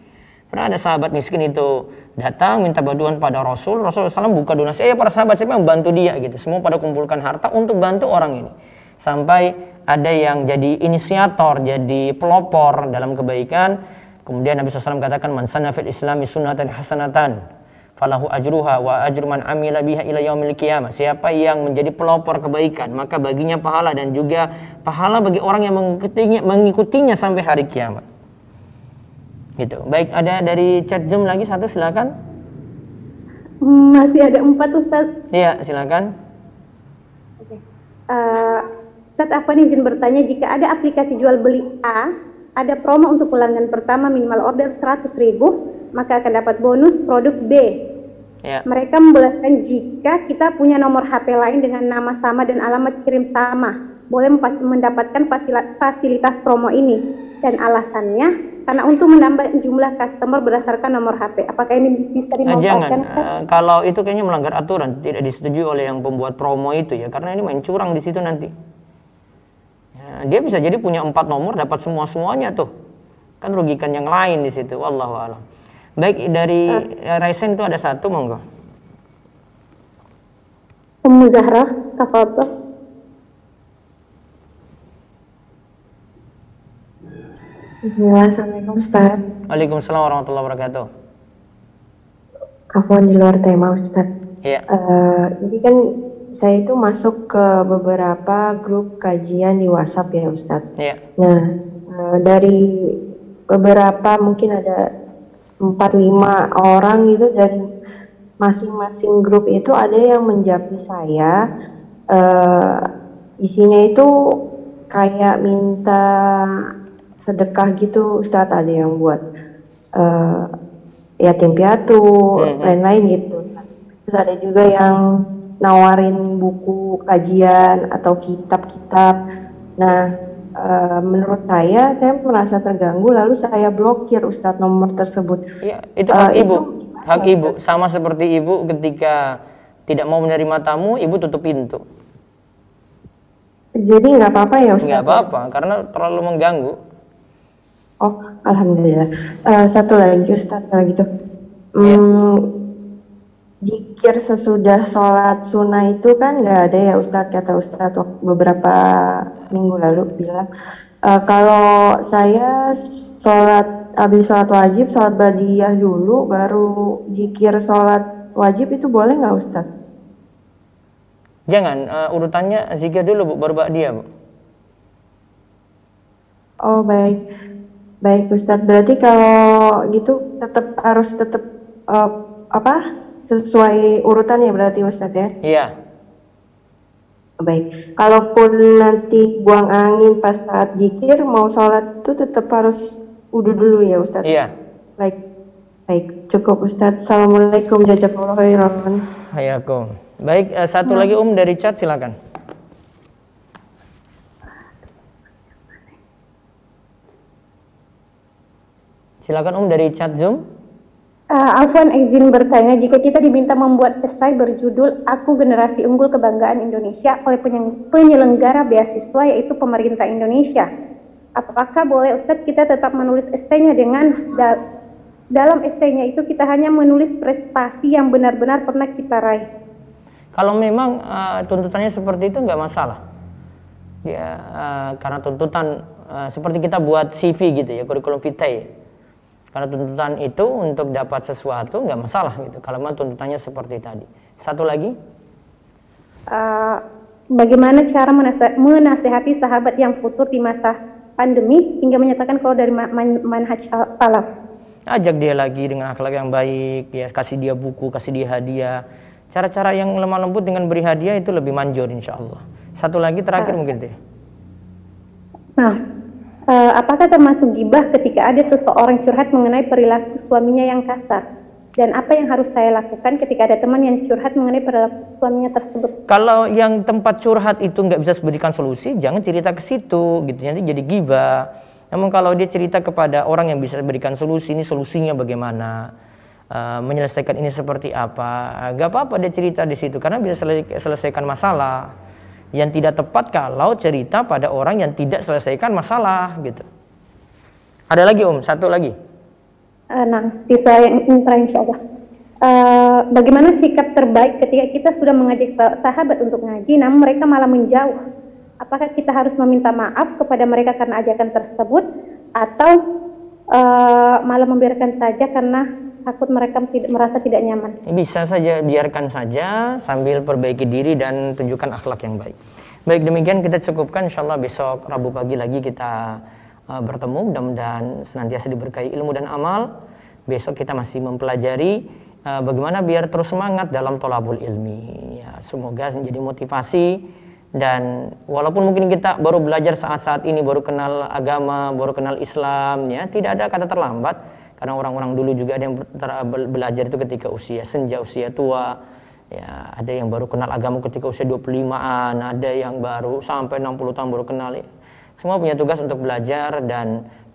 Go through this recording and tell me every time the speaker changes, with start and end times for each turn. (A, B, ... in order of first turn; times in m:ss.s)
0:00.5-0:17.4 A
0:18.0-0:28.0 A
0:29.6-0:32.1 A
0:33.6-0:35.0 B
0:35.3-0:36.1 A
0:38.1-0:42.1 B
0:42.6-0:47.7 B
0:48.7-1:03.2 B
1:02.5-1:08.5 A
1:10.0-1:12.7 A
1:13.4-1:15.4 A
1:16.0-1:18.4 A
1:21.0-1:22.5 B
1:27.8-1:29.2 C
1:29.5-1:30.9 A
1:32.8-1:34.1 C
1:34.7-1:35.8 C
1:36.4-1:40.6 C
1:41.2-1:42.6 C
1:43.6-1:44.8 C
1:45.7-1:47.6 C
1:48.4-1:51.3 C
1:52.1-1:52.8 C
1:53.5-1:54.1 C
1:54.9-1:56.0 C
1:57.2-1:59.2 C
2:00.0-2:00.5 C
2:01.2-2:05.0 C
2:02.4-2:02.8 A
2:05.6-2:09.1 C
2:10.6-2:15.4 C
2:15.6-2:19.3 A
2:16.1-2:17.5 C
2:19.9-2:21.8 A
2:23.8-2:25.3 C
2:24.8-2:26.8 A
2:28.0-2:31.0 C
2:31.8-2:32.4 C
2:33.6-2:40.4 C
2:41.1-2:42.5 C
2:43.2-2:49.6 C
2:51.5-2:54.0 A
2:56.7-2:57.2 C
2:58.0-2:59.4 C
2:59.9-3:05.3 C
3:05.4-3:05.7 A
3:07.4-3:14.2 C
3:14.2-3:14.5 A
3:15.9-3:19.0 C
3:19.3-3:22.2 A
3:29.3-3:30.4 A
3:31.4-3:40.7 B
3:41.4-3:44.6 B
3:45.4-3:49.4 B
3:50.3-3:53.0 A
3:54.0-3:58.7 A
3:59.5-4:05.0 A
4:06.3-4:06.8 B
4:07.4-4:14.3 B
4:14.9-4:18.8 A
4:19.3-4:23.9 A
4:26.5-4:31.2 B
4:31.8-4:35.9 B
4:36.1-4:45.8 A
4:46.5-4:51.9 A
4:52.6-4:56.6 A
4:57.9-4:59.0 A
5:00.0-5:01.8 B
5:02.4-5:08.0 B
5:08.6-5:11.8 B
5:12.4-5:12.7 B
5:13.6-5:17.8 B
5:17.9-5:22.3 A
5:22.9-5:29.7 A
5:30.3-5:37.0 A
5:37.6-5:48.7 A
5:49.3-5:54.6 A
5:55.2-5:56.9 A